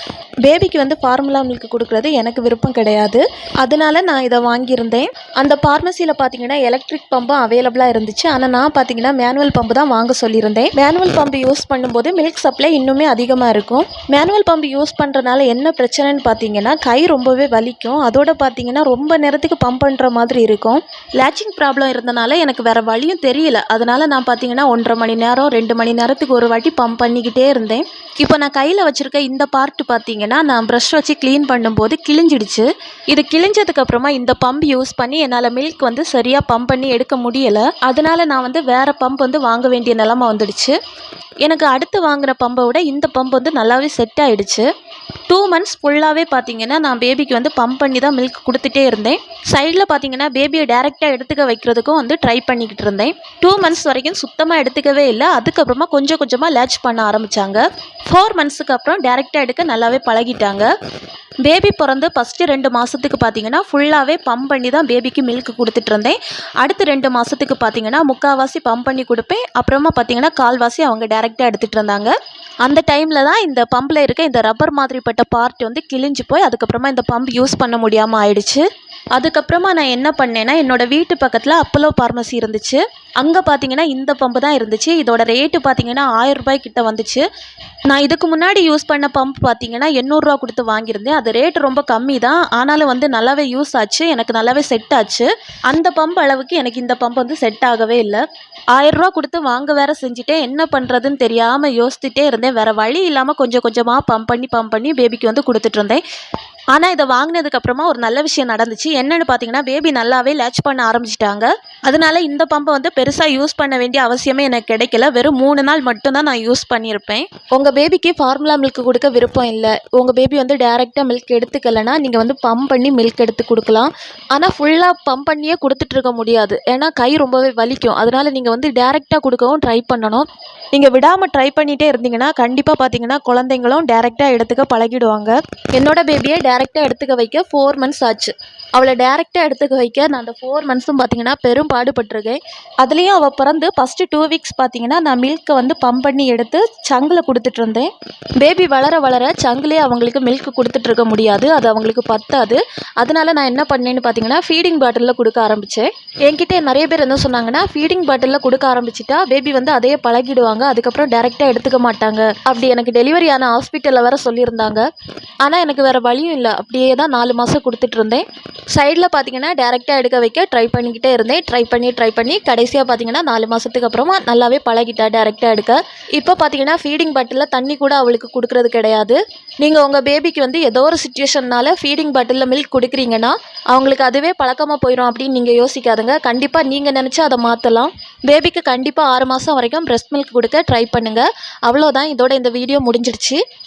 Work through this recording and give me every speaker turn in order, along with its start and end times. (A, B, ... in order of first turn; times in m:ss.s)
0:00.4-0:40.8 A
0:41.4-0:44.7 A
0:45.3-1:00.7 A
1:01.4-1:18.6 A
1:19.2-1:27.2 A
1:27.9-1:38.2 A
1:38.7-1:46.0 A
1:46.7-2:44.9 A
2:45.4-3:13.4 A